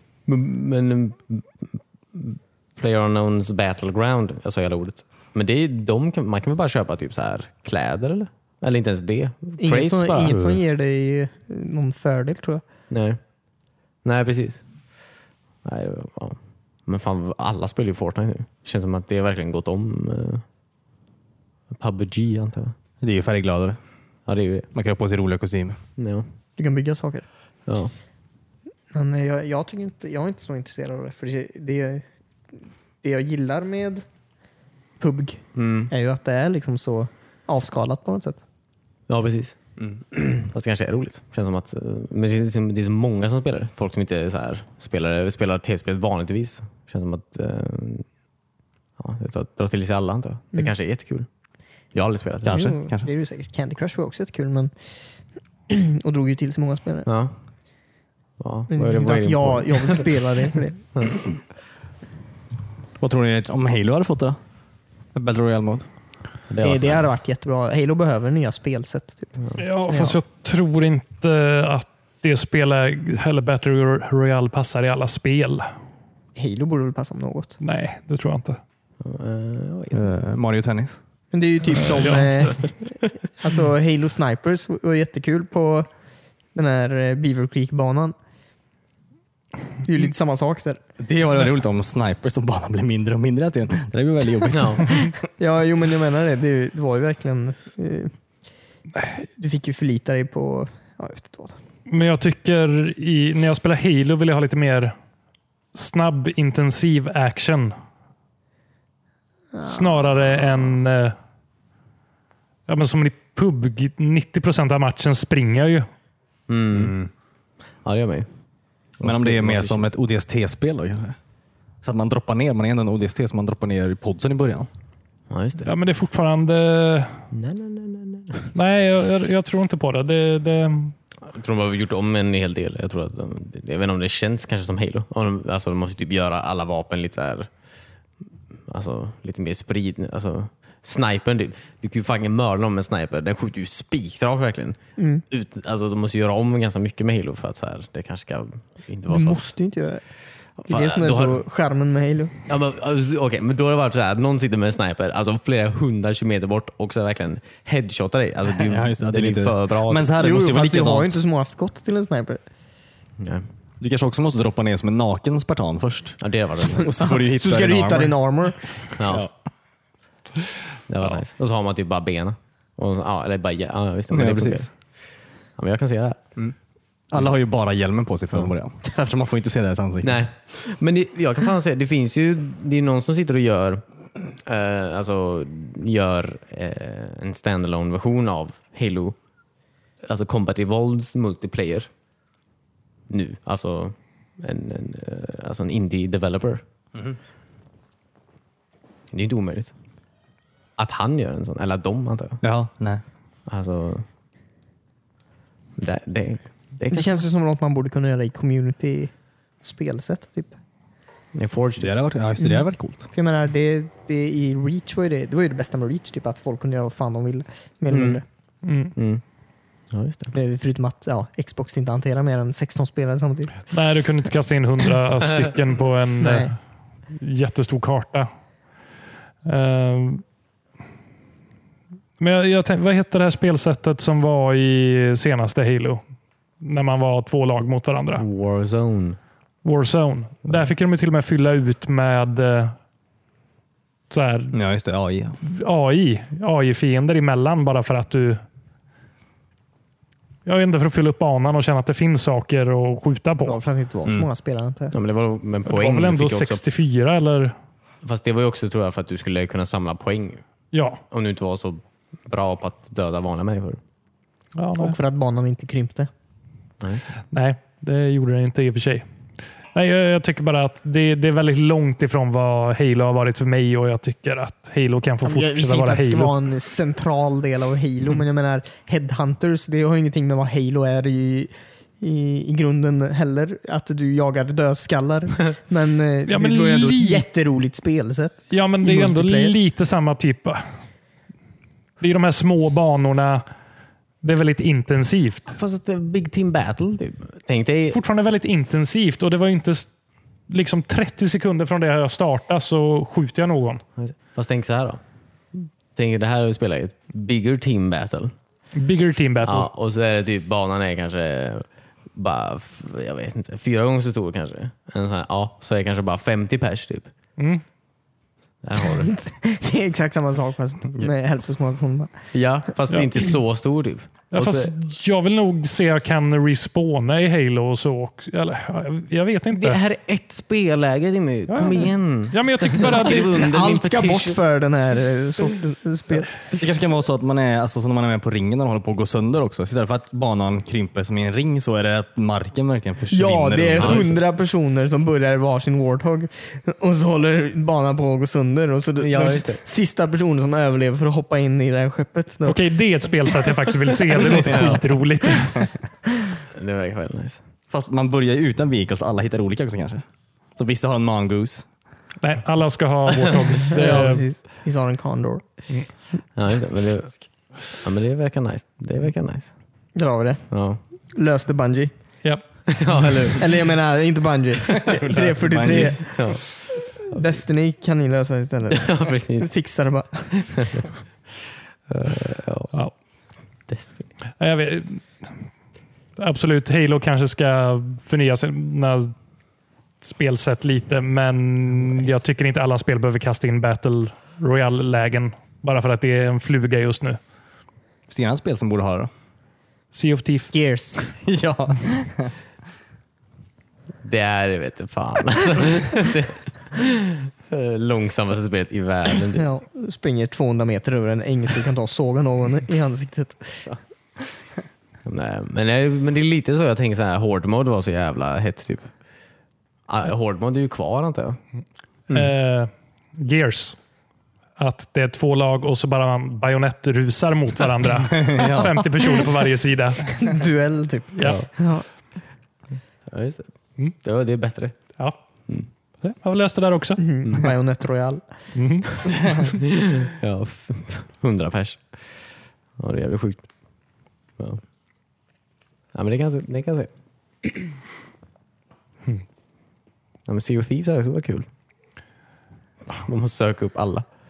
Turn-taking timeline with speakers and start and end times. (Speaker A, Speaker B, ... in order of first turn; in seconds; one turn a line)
Speaker A: 0.2-10.3
Speaker B: 9.6-12.6
Speaker C: 10.3-10.6
Speaker A: 12.9-13.2
Speaker A: 14.0-14.6
Speaker A: 15.6-20.4
Speaker A: 21.7-22.7
Speaker C: 23.0-23.8
Speaker A: 24.2-24.7
Speaker C: 24.7-25.8
Speaker A: 26.0-26.2
Speaker B: 26.6-27.2
Speaker A: 27.7-27.9
Speaker B: 28.9-32.0
Speaker B: 33.0-34.0
Speaker B: 35.0-38.4
Speaker A: 35.5-35.9
Speaker A: 39.1-39.6
Speaker A: 40.1-48.1
Speaker A: 49.0-51.3
Speaker A: 51.9-52.6
Speaker C: 52.4-53.1
Speaker B: 52.5-54.7
Speaker B: 55.7-57.1
Speaker A: 57.0-57.3
Speaker A: 58.4-60.2
Speaker B: 58.7-60.8
Speaker C: 63.0-64.4
Speaker C: 65.1-65.8
Speaker A: 66.5-67.0
Speaker B: 66.6-69.4
Speaker D: 69.6-75.7
Speaker B: 69.9-70.2
Speaker B: 76.3-77.6
Speaker D: 77.6-78.6
Speaker A: 79.0-80.1
Speaker C: 79.9-81.0
Speaker B: 81.3-85.9
Speaker D: 81.9-82.3
Speaker B: 86.5-88.1
Speaker B: 89.8-90.8
Speaker C: 91.0-95.1
Speaker A: 94.5-94.9
Speaker B: 95.4-98.1
Speaker B: 99.1-101.6
Speaker D: 101.9-104.9
Speaker D: 105.7-107.7
Speaker B: 109.5-110.1
Speaker D: 109.6-111.2
Speaker D: 112.7-115.9
Speaker A: 116.5-116.9
Speaker C: 116.7-117.1
Speaker A: 117.8-118.3
Speaker A: 119.0-119.9
Speaker C: 119.0-121.2
Speaker C: 121.8-124.7
Speaker A: 125.3-125.7
Speaker D: 125.6-127.2
Speaker A: 127.3-128.5
Speaker D: 128.5-130.9
Speaker A: 131.3-137.5
Speaker A: 138.7-144.8
Speaker B: 145.0-145.2
Speaker A: 145.3-149.5
Speaker B: 149.1-150.0
Speaker A: 150.6-151.4
Speaker B: 150.7-152.3
Speaker A: 152.5-160.1
Speaker C: 158.6-161.2
Speaker B: 160.2-162.4
Speaker A: 163.2-163.4
Speaker C: 163.8-168.2
Speaker A: 166.2-166.9
Speaker B: 166.8-168.7
Speaker A: 168.9-169.3
Speaker C: 169.0-169.3
Speaker A: 170.9-174.7
Speaker C: 174.1-174.7
Speaker A: 175.6-176.2
Speaker C: 177.1-180.2
Speaker A: 180.0-189.2
Speaker A: 190.0-191.9
Speaker A: 193.1-196.6
Speaker A: 199.1-199.7
Speaker A: 200.8-202.4
Speaker C: 202.4-203.0
Speaker A: 203.5-204.0
Speaker A: 205.8-207.2
Speaker B: 206.9-210.5
Speaker A: 211.3-211.9
Speaker C: 211.8-213.1
Speaker B: 212.4-218.2
Speaker A: 217.9-218.2
Speaker D: 218.6-218.9
Speaker A: 218.9-219.2
Speaker A: 219.9-220.3
Speaker B: 220.3-223.6
Speaker D: 223.7-226.6
Speaker B: 226.2-226.5
Speaker D: 227.1-228.3
Speaker D: 229.4-230.2
Speaker D: 232.2-236.0
Speaker D: 236.6-238.2
Speaker A: 238.2-239.2
Speaker D: 239.6-242.8
Speaker D: 244.1-244.5
Speaker C: 244.5-245.4
Speaker D: 245.4-248.4
Speaker D: 250.4-253.6
Speaker B: 253.4-254.9
Speaker A: 254.9-256.6
Speaker D: 255.7-257.5
Speaker A: 258.0-260.4
Speaker D: 260.7-261.0
Speaker A: 261.1-263.8
Speaker D: 264.5-265.0
Speaker B: 264.8-266.1
Speaker A: 266.8-267.1
Speaker D: 267.3-269.1
Speaker D: 269.7-276.3
Speaker B: 275.2-289.5
Speaker D: 286.3-287.2
Speaker D: 288.5-290.6
Speaker D: 292.0-293.4
Speaker D: 294.2-295.5
Speaker A: 295.5-298.0
Speaker D: 297.9-299.9
Speaker D: 300.5-303.8
Speaker A: 304.0-305.0
Speaker A: 305.5-308.3
Speaker D: 308.7-309.7
Speaker A: 309.4-317.1
Speaker D: 317.4-317.6
Speaker A: 318.6-319.1
Speaker B: 319.0-322.1
Speaker A: 322.3-324.7
Speaker D: 324.3-329.8
Speaker A: 329.5-334.4
Speaker D: 331.5-333.4
Speaker B: 332.9-336.4
Speaker C: 336.6-344.2
Speaker B: 343.1-352.6
Speaker A: 343.8-344.1
Speaker A: 349.0-349.6
Speaker D: 352.4-355.7
Speaker C: 354.3-354.8
Speaker A: 356.5-357.4
Speaker C: 357.7-360.0
Speaker C: 360.6-361.7
Speaker D: 362.2-364.2
Speaker B: 363.7-365.4
Speaker A: 366.4-369.5
Speaker B: 369.9-370.5
Speaker A: 370.5-370.8
Speaker B: 371.1-371.9
Speaker A: 372.7-373.5
Speaker B: 373.4-376.5
Speaker C: 374.7-376.0
Speaker A: 375.6-376.4
Speaker B: 377.0-380.8
Speaker A: 378.7-379.5
Speaker A: 380.6-380.8
Speaker A: 381.9-382.7
Speaker A: 383.7-384.1
Speaker D: 384.4-385.3
Speaker D: 386.2-389.1
Speaker D: 390.0-397.2
Speaker C: 398.1-399.1
Speaker D: 399.9-400.5
Speaker B: 400.5-401.0
Speaker C: 401.2-402.3
Speaker A: 404.0-409.5
Speaker B: 409.4-413.8
Speaker A: 415.0-418.9
Speaker A: 419.9-421.4
Speaker D: 422.1-423.8
Speaker D: 424.6-430.0
Speaker C: 428.2-428.8
Speaker B: 430.0-431.8
Speaker A: 431.2-431.5
Speaker A: 433.1-433.5
Speaker A: 434.0-434.7
Speaker D: 436.0-437.0
Speaker B: 437.0-438.2
Speaker D: 438.5-439.5
Speaker A: 439.6-441.9
Speaker A: 442.8-443.4
Speaker A: 445.9-446.9
Speaker A: 450.3-451.5
Speaker A: 452.9-454.1